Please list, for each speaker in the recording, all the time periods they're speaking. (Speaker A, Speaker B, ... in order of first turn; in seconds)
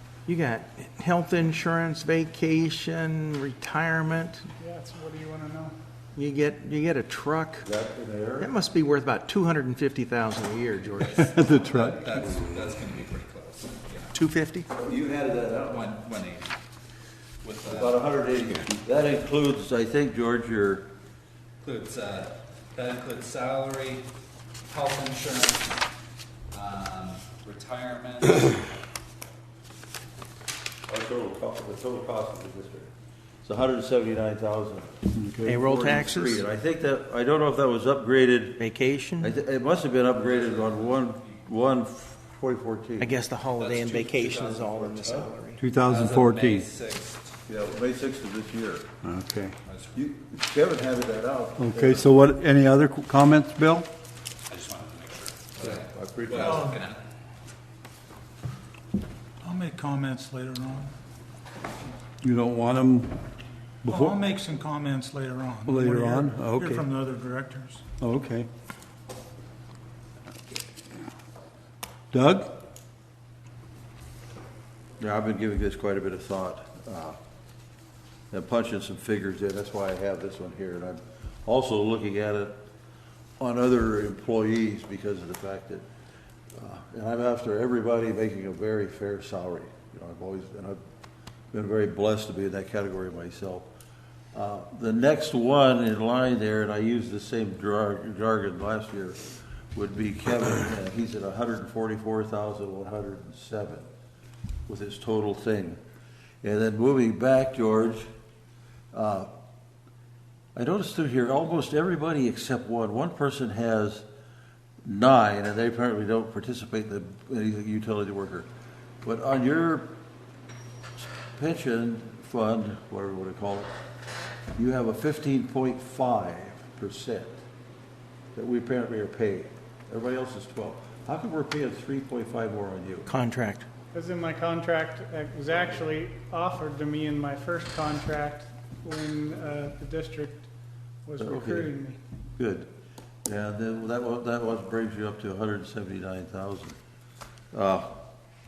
Speaker A: 0.3-4.5, 6.2-7.7, 8.4-11.2, 14.2-14.7, 35.5-36.5, 38.6-39.4, 43.0-45.6, 133.1-133.7
Speaker B: 4.6-5.7, 133.9-140.4, 141.1-142.0
Speaker C: 7.6-8.5, 12.1-12.8, 14.8-15.9, 17.6-20.9, 30.9-32.9, 33.4-34.9, 35.5-38.6, 39.2-43.2, 44.7-45.4, 47.5-48.9, 50.0-52.1, 55.6-56.8, 75.0-77.2, 78.3-82.6, 83.4-85.9, 86.6-90.8, 91.5-93.7, 94.3-99.2, 99.7-103.9, 104.7-105.8, 106.4-108.1, 108.9-109.3, 110.5-114.0, 114.8-118.5, 119.0-119.9, 121.3-123.7, 124.6-127.4, 128.3-133.1, 141.2-141.7, 142.4-142.7, 143.2-146.8, 147.5-148.0
Speaker D: 11.0-14.2, 15.5-16.5, 17.4-18.0, 21.6-24.1, 24.7-25.7, 26.5-28.6, 43.5-45.1, 45.9-47.3, 49.7-50.0, 54.5-57.0
Speaker E: 11.2-12.1, 35.1-35.6, 45.6-46.7, 49.0-49.6, 51.6-53.9, 62.2-63.1, 63.8-64.2, 65.7-66.8, 68.0-68.5, 72.1-72.5
Speaker F: 56.4-56.8, 59.4-60.9, 63.9-67.8